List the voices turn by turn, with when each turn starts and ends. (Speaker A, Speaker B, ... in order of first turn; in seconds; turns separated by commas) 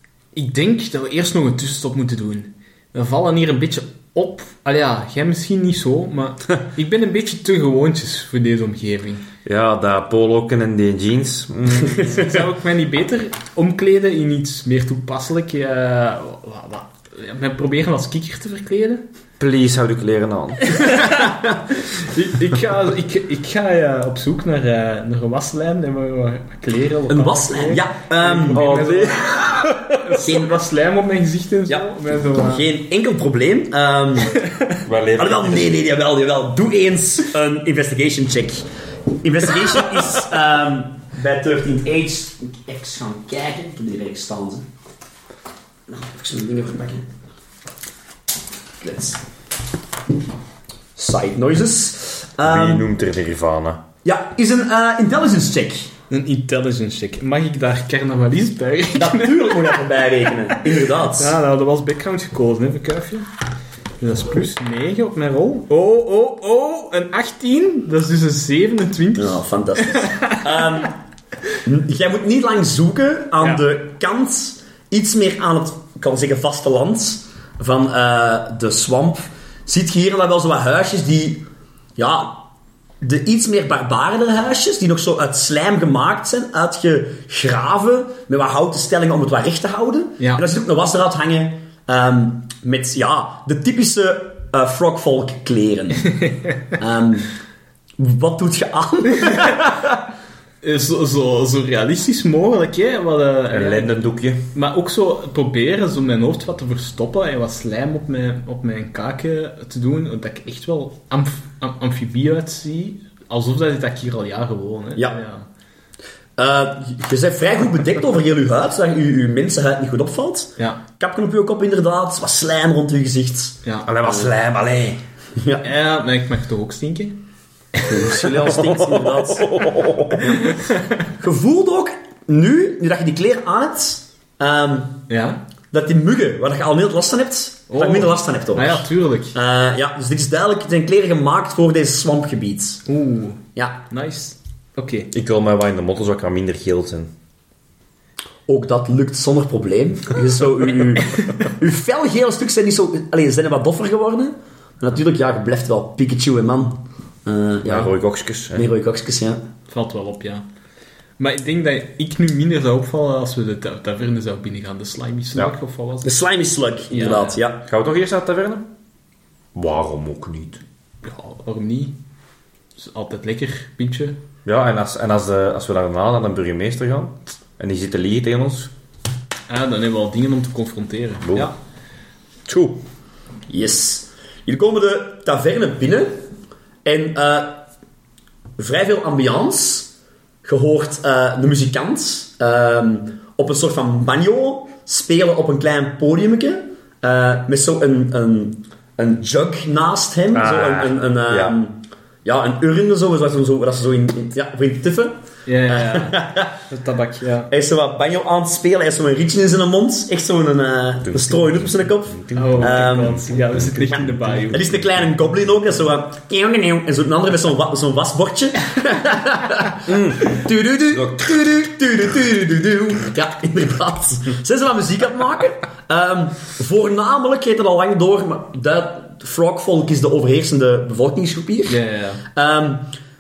Speaker A: 0.3-9.2, Speaker B: 9.4-12.4, Speaker A: 11.9-19.0, Speaker B: 19.4-21.0, Speaker A: 20.7-32.7, Speaker C: 27.1-28.6, Speaker B: 28.5-29.9, Speaker C: 30.2-30.5, Speaker C: 31.7-34.4, Speaker A: 34.4-34.8, Speaker B: 34.9-35.7, Speaker C: 35.2-38.7, Speaker C: 39.2-44.7, Speaker C: 45.9-47.1, Speaker C: 48.8-49.2, Speaker C: 51.0-52.9, Speaker B: 52.4-53.8, Speaker C: 54.0-55.9, Speaker A: 56.1-59.9, Speaker C: 59.0-61.4, Speaker A: 61.0-63.3, Speaker A: 64.0-70.4, Speaker C: 69.2-71.0, Speaker C: 71.6-82.5, Speaker C: 83.0-96.1, Speaker C: 96.8-97.3, Speaker C: 98.0-100.0, Speaker A: 99.2-99.6, Speaker A: 100.6-103.9, Speaker B: 103.5-104.4, Speaker A: 104.5-115.5, Speaker C: 116.4-124.3, Speaker B: 123.9-125.0, Speaker C: 125.4-125.7, Speaker A: 125.6-127.2, Speaker A: 127.7-128.2, Speaker C: 127.9-129.6, Speaker B: 128.2-130.4, Speaker A: 130.4-130.8, Speaker C: 131.2-135.1, Speaker A: 135.1-135.4, Speaker C: 135.7-142.8, Speaker A: 137.7-139.4, Speaker A: 142.9-145.1, Speaker C: 143.6-143.8, Speaker B: 145.1-147.1, Speaker C: 148.5-157.9, Speaker B: 157.6-158.7, Speaker C: 158.5-159.4, Speaker A: 159.7-160.5, Speaker A: 161.2-166.2, Speaker C: 166.0-167.7, Speaker A: 166.9-167.4, Speaker B: 167.7-168.6, Speaker B: 169.6-170.6, Speaker A: 171.0-172.0, Speaker A: 172.8-174.2, Speaker B: 174.4-178.7, Speaker A: 179.5-181.6, Speaker B: 181.3-181.5, Speaker B: 182.5-182.8, Speaker C: 183.5-186.2, Speaker C: 186.8-187.6, Speaker C: 188.6-189.9, Speaker C: 190.4-206.5, Speaker B: 200.3-201.6, Speaker A: 205.5-207.5, Speaker C: 207.5-213.2, Speaker B: 211.1-212.7, Speaker A: 212.3-214.7, Speaker C: 214.5-232.9, Speaker B: 219.9-220.4, Speaker B: 220.9-221.3, Speaker A: 231.7-232.2